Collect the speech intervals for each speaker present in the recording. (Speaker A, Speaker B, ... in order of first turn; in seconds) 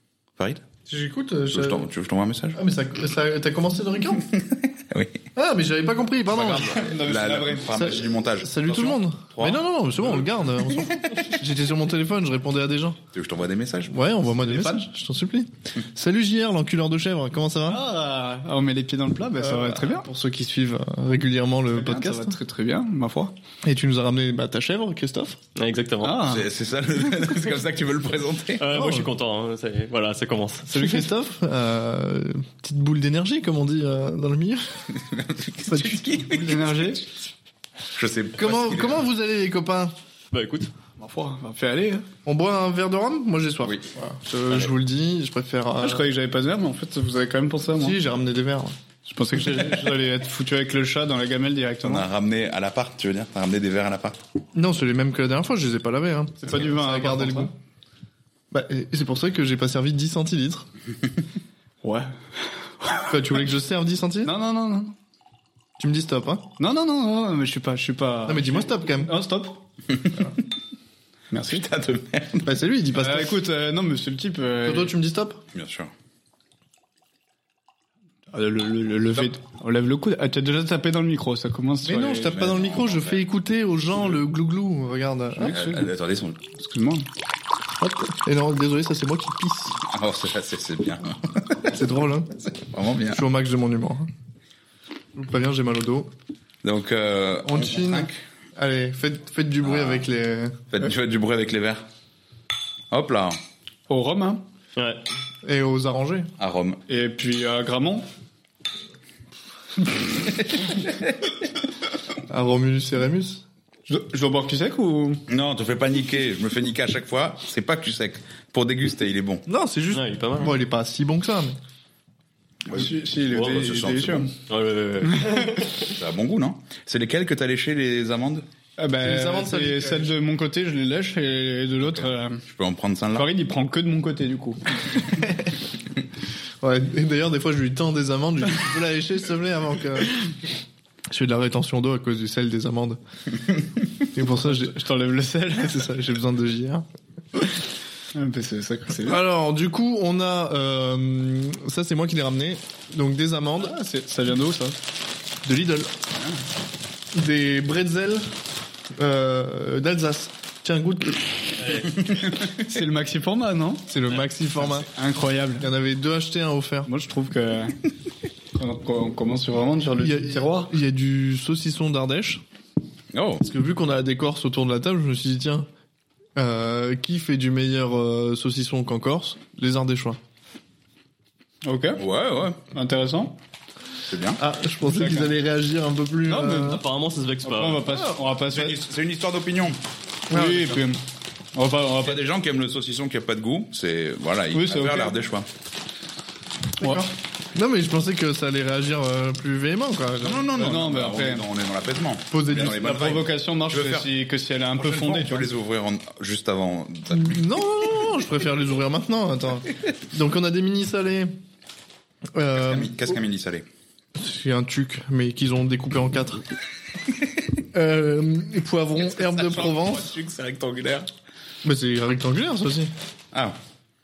Speaker A: 0.4-0.6, 1.5-2.6, 4.7-5.2, 6.3-10.3, 13.1-13.9, 26.2-28.6, 34.9-36.7, 37.9-39.0, 51.8-54.2, 71.5-72.5, 75.5-75.9, 82.3-83.2, 85.5-86.4, 89.8-91.7, 92.6-93.2, 96.6-98.2, 99.6-100.0, 100.7-101.8, 102.9-103.4, 106.4-106.8, 115.3-119.4, 122.7-124.3, 126.0-128.5, 131.8-133.3, 162.1-162.6, 173.1-173.4, 182.0-182.6, 184.1-184.4, 188.5-189.8, 192.0-195.5, 200.2-204.1, 204.7-207.4, 212.6-213.7, 219.3-221.0
Speaker B: 0.9-1.9, 2.5-4.3, 5.3-6.8, 7.7-13.0, 13.9-17.8, 19.4-22.4, 23.6-25.4, 28.7-29.1, 30.7-34.9, 35.7-36.0, 38.4-39.9, 42.2-46.1, 47.8-48.7, 54.5-57.5, 58.5-60.7, 63.1-64.3, 65.8-66.5, 68.3-69.1, 72.4-73.4, 74.6-75.4, 81.8-85.6, 87.8-89.8, 91.7-92.4, 93.1-94.1, 95.2-96.1, 97.5-100.7, 105.4-106.3, 112.3-113.4, 119.5-121.6, 129.0-130.1, 136.6-140.2, 141.1-143.0, 144.1-144.8, 145.6-146.8, 149.0-153.8, 155.4-155.9, 157.1-158.3, 159.0-161.6, 163.9-164.9, 165.6-166.9, 170.0-172.4, 173.4-175.7, 176.4-180.2, 184.4-186.8, 187.9-188.2, 190.3-190.8, 196.8-200.5, 202.3-202.9, 207.1-211.3, 212.3-213.2, 214.2-216.4, 217.7-220.1, 221.6-222.9
Speaker C: 6.7-7.7, 14.4-14.9, 17.7-20.1, 21.7-23.3, 26.0-26.5, 36.2-37.0, 41.0-42.1, 45.8-48.0, 49.0-52.0, 56.4-57.5, 61.8-62.2, 64.2-65.0, 66.6-69.5, 71.3-71.7, 72.9-75.0, 78.3-82.5, 85.4-85.9, 86.5-87.1, 103.9-104.4, 106.9-108.1, 113.9-115.2, 122.7-124.3, 125.0-125.7, 128.8-132.4, 133.2-134.6, 144.4-145.9, 148.1-149.2, 153.6-154.8, 162.5-163.9, 164.7-165.7, 166.9-167.8, 168.6-170.7, 181.7-182.0, 182.7-183.4, 186.3-186.8, 187.4-188.8, 190.3-191.0, 191.5-192.2, 194.5-195.2, 196.8-197.1, 200.6-201.5, 202.5-205.5, 220.7-221.0
Speaker D: 25.6-26.2, 28.6-30.8, 40.3-40.7, 104.8-105.0, 119.9-120.6, 124.5-125.9, 161.6-161.9, 186.3-187.9